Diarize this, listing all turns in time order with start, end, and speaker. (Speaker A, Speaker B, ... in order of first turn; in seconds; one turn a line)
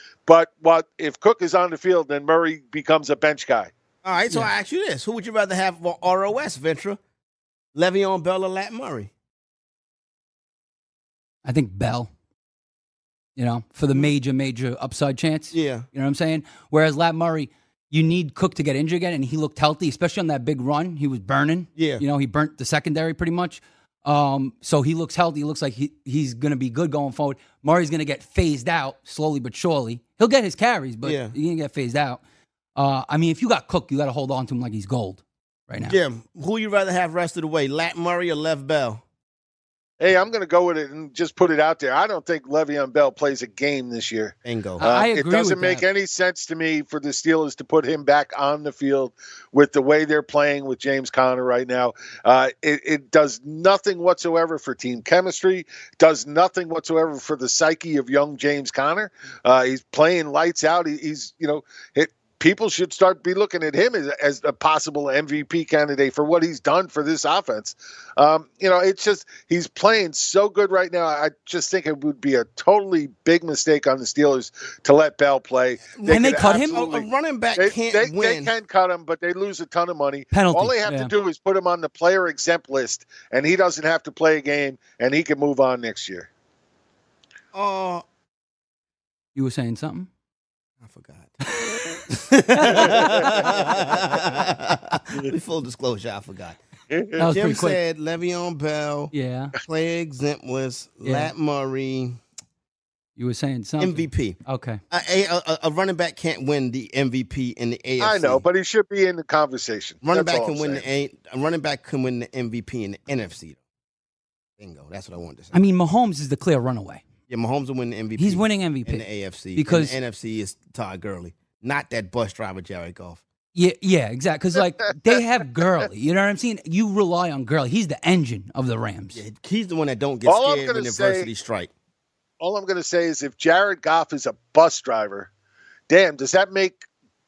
Speaker A: 0.3-3.7
Speaker B: 4.0-7.0
Speaker B: 7.8-9.1
Speaker C: 11.4-12.1
Speaker C: 13.4-32.2
Speaker B: 15.5-15.9
Speaker B: 21.8-22.0
Speaker B: 31.0-31.3
Speaker C: 32.8-36.0
Speaker B: 35.9-39.0
Speaker A: 40.0-86.3
Speaker B: 44.4-44.8
Speaker C: 44.8-45.8
Speaker B: 75.9-78.5
Speaker C: 76.0-76.9
Speaker C: 80.3-81.1
Speaker B: 87.5-88.0
Speaker C: 89.3-90.1
Speaker B: 90.8-91.3
Speaker B: 92.1-96.6
Speaker C: 92.5-93.2
Speaker A: 92.8-93.7
Speaker A: 96.9-97.2
Speaker C: 97.2-97.8
Speaker B: 97.2-102.2
Speaker C: 99.1-99.5
Speaker C: 101.0-101.3
Speaker C: 103.2-104.8
Speaker B: 103.8-104.4
Speaker B: 104.9-108.4
Speaker A: 108.0-110.8
Speaker B: 110.0-113.6
Speaker B: 114.6-115.5
Speaker C: 115.5-117.0
Speaker B: 117.3-123.2
Speaker C: 118.2-120.0
Speaker C: 123.5-129.2
Speaker B: 129.1-131.7
Speaker A: 130.2-131.3
Speaker A: 132.4-135.3
Speaker A: 135.9-136.8